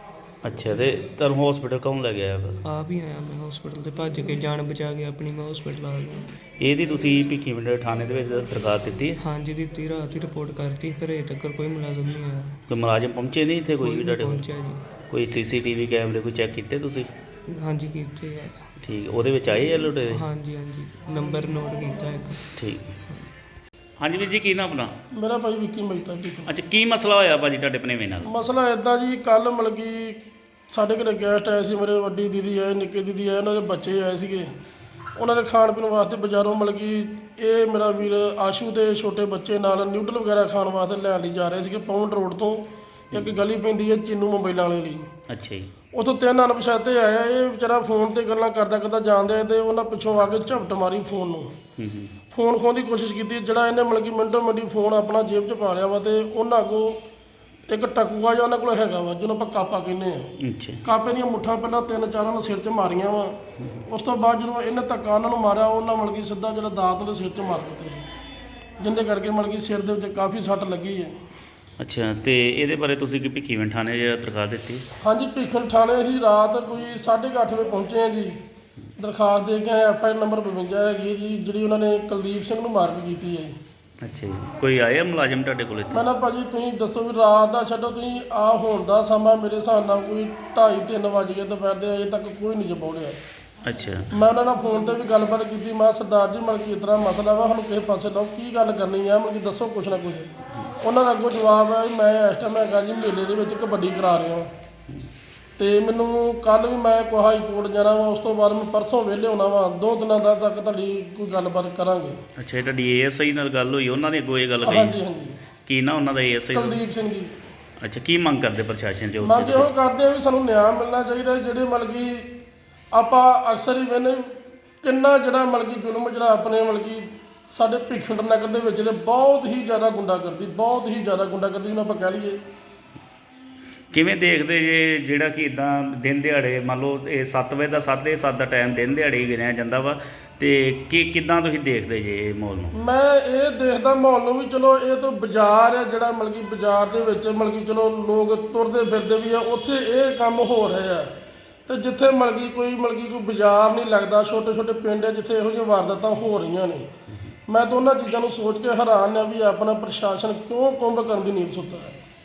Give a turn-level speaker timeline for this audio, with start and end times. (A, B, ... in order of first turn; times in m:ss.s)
0:00.4-0:02.6 A
0:02.6-0:06.3 B
0:06.6-0:09.2 A
0:09.2-0:12.6 B
0:12.7-0:14.4 A
0:13.8-0:14.9 B
0:15.1-0:17.1 A
0:17.5-0:18.6 B
0:18.8-0:20.2 A
0:20.1-0:22.4 B
0:22.6-0:23.0 A
0:24.0-0:24.9 A
0:25.1-0:26.5 C
0:26.4-0:28.3 A
0:28.2-0:34.5 C
0:35.2-0:45.1 C
0:45.3-0:45.7 A
0:45.9-0:51.5 C
0:51.8-0:52.1 A
0:52.3-0:57.0 C
0:57.7-1:00.3 C
1:00.4-1:00.8 A
1:00.8-1:03.4 C
1:03.6-1:03.8 A
1:03.9-1:08.0 C
1:08.8-1:11.1 C
1:11.8-1:14.8 A
1:15.0-1:18.4 C
1:19.0-1:23.6 C
1:24.0-1:26.0 A
1:25.9-1:33.2 C
1:33.6-1:34.1 A
1:34.1-1:44.5 C
1:45.6-1:52.2 C
1:52.4-1:55.0 A
1:54.6-1:55.4 C
1:55.6-1:56.8 A
1:56.5-1:57.4 C
1:57.8-1:59.7 A
1:59.2-2:02.3 C
2:02.9-2:04.3 C
2:04.8-2:12.4 C
2:13.9-2:22.8 A
2:22.7-2:31.1 C
2:31.7-2:36.9 C
2:37.5-2:42.0 C